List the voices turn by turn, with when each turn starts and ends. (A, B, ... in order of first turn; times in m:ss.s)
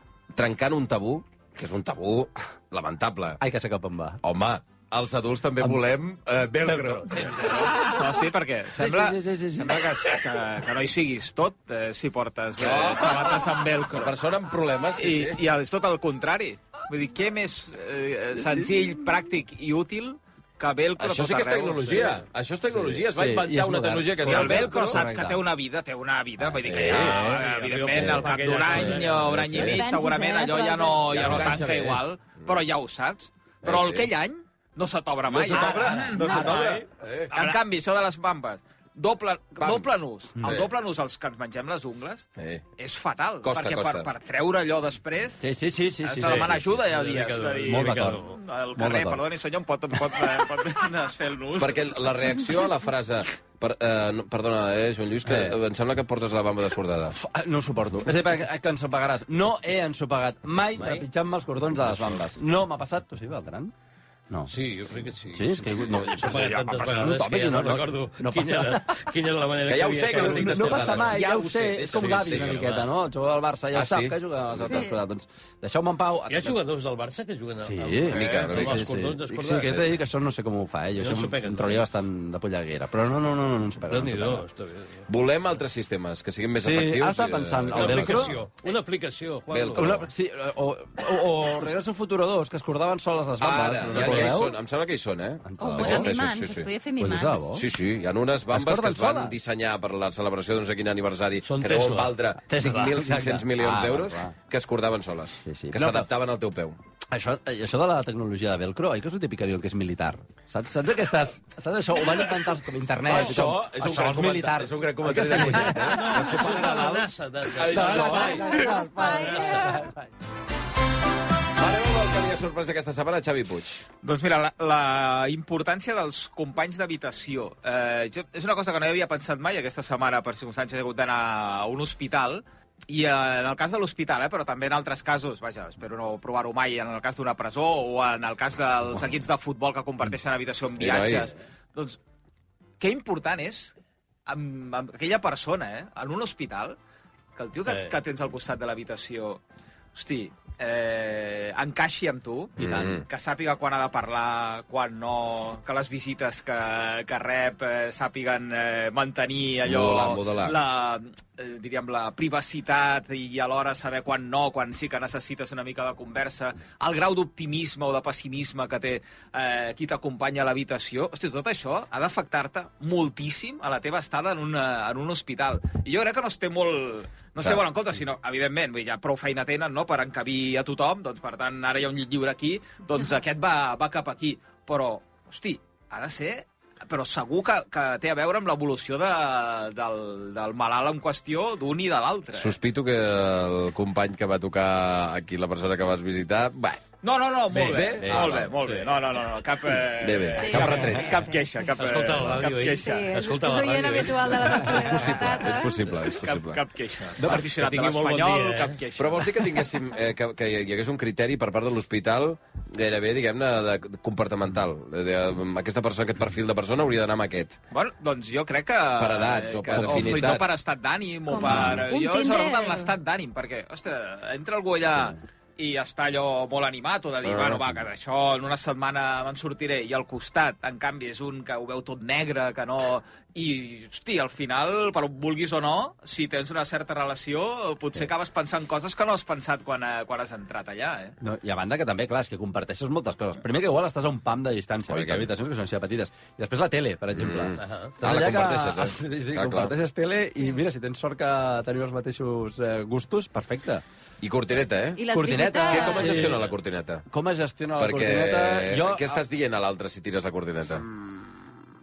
0:00.3-0:03.4 A
0:03.4-0:04.2 B
0:04.2-0:07.5 A
0:06.7-0:08.0 B
0:07.2-0:14.2 C
0:08.7-0:09.8 B
0:12.6-0:15.4 A
0:15.0-0:22.2 C
0:21.0-0:25.0 A
0:22.8-0:25.4 B
0:24.2-0:45.4 C
0:26.6-0:27.2 A
0:26.7-0:27.3 B
0:26.8-0:29.4 D
0:27.9-0:29.7 B
0:29.3-0:29.8 A
0:29.5-0:31.2 E
0:31.0-0:32.6 A
0:33.6-0:34.1 A
0:35.3-0:37.6 A
0:35.5-0:36.8 B
0:39.6-0:39.9 A
0:40.4-0:40.7 A
0:42.4-0:42.6 A
0:43.4-0:44.1 A
0:45.4-0:46.7 B
0:46.0-0:52.2 C
0:46.2-0:48.4 D
0:47.6-0:48.2 B
0:48.8-0:49.2 B
0:51.6-0:57.2 A
0:55.2-0:55.6 B
0:57.1-1:03.7 B
1:00.8-1:01.0 D
1:01.9-1:02.2 D
1:04.5-1:11.2 D
1:05.3-1:09.0 B
1:09.6-1:12.7 A
1:10.1-1:16.6 B
1:11.9-1:12.9 D
1:13.7-1:14.8 A
1:14.6-1:15.0 E
1:16.3-1:19.9 D
1:17.7-1:24.4 B
1:18.1-1:18.8 A
1:21.0-1:21.8 D
1:23.9-1:25.0 D
1:25.1-1:28.4 A
1:26.6-1:28.3 B
1:27.7-1:30.0 D
1:29.5-1:30.1 A
1:29.7-1:34.6 B
1:33.4-1:36.7 A
1:33.9-1:34.3 D
1:35.5-1:36.1 B
1:35.6-1:37.5 E
1:37.0-1:37.6 B
1:37.5-1:46.8 A
1:38.5-1:39.4 B
1:41.4-1:42.7 D
1:42.5-1:44.3 B
1:45.4-1:46.1 B
1:47.1-1:56.3 B
1:53.0-1:58.5 A
1:55.5-1:59.7 D
1:57.7-1:59.9 B
1:58.0-1:59.8 E
2:01.6-2:03.8 A
2:04.0-2:22.0 C
2:20.8-2:21.3 A
2:22.8-2:23.7 C
2:24.3-2:26.8 C
2:27.4-2:29.4 C
2:27.6-2:27.9 D
2:29.9-3:12.5 C
2:32.6-2:33.0 A
2:32.6-2:33.0 B
2:39.6-2:40.6 A
3:12.3-3:16.8 A
3:17.0-3:23.2 C
3:17.5-3:18.6 A
3:18.0-3:18.4 B
3:18.6-3:18.9 D
3:20.0-3:21.2 A
3:20.4-3:21.4 E
3:21.8-3:25.0 D
3:22.8-3:25.8 E
3:24.6-3:26.6 A
3:26.1-3:29.7 C
3:27.2-3:27.5 B
3:27.3-3:28.8 D
3:29.0-3:37.6 A
3:37.7-4:01.2 C
3:39.0-3:40.6 A
3:39.8-3:40.4 B
3:41.3-3:42.9 E
3:41.4-3:41.8 A
3:47.2-3:47.8 A
4:01.2-4:13.8 B
4:04.9-4:05.3 A
4:07.1-4:09.7 A
4:07.6-4:07.9 D
4:14.2-4:15.0 A
4:15.0-4:16.4 E
4:15.1-4:16.5 B
4:15.6-4:17.0 A
4:17.1-4:19.2 B
4:17.8-4:20.8 A
4:20.8-4:21.5 B